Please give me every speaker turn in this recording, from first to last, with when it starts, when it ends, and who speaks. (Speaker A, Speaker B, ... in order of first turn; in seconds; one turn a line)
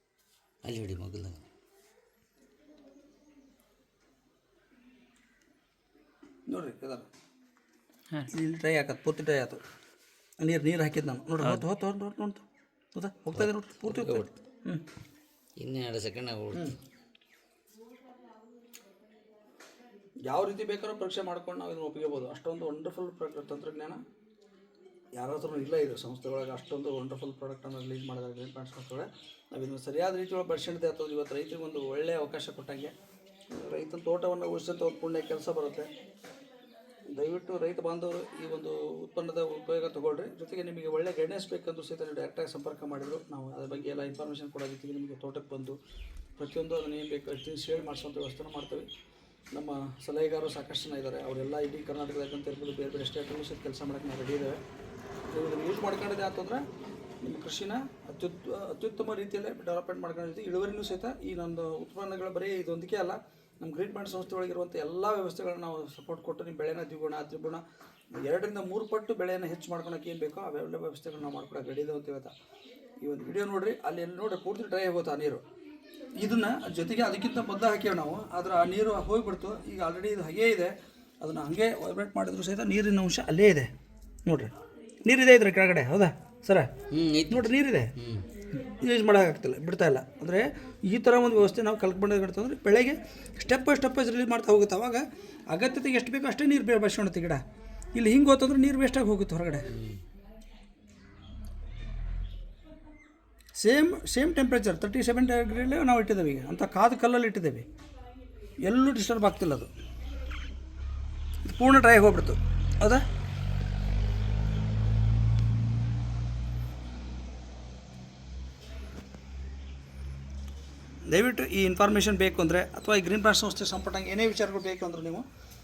Speaker A: 0.6-1.4
Speaker B: 6.5-7.0
Speaker B: 8.3-9.6
Speaker B: 10.4-12.4
Speaker B: 12.9-14.8
Speaker A: 13.3-14.3
Speaker A: 15.6-16.8
Speaker B: 20.3-24.0
Speaker B: 25.1-32.9
Speaker B: 33.5-35.9
Speaker B: 37.1-45.8
Speaker B: 46.4-48.9
Speaker B: 49.5-54.6
Speaker B: 55.3-56.6
Speaker B: 57.2-67.6
Speaker B: 68.2-72.3
Speaker B: 73.0-75.4
Speaker B: 76.2-83.7
Speaker B: 84.2-84.5
Speaker B: 85.0-86.7
Speaker A: 86.9-88.3
Speaker B: 87.3-87.9
Speaker B: 88.5-97.4
Speaker B: 97.9-99.7
Speaker A: 99.7-100.0
Speaker B: 103.5-107.7
Speaker B: 108.6-109.7
Speaker B: 111.5-113.0
Speaker B: 121.1-125.2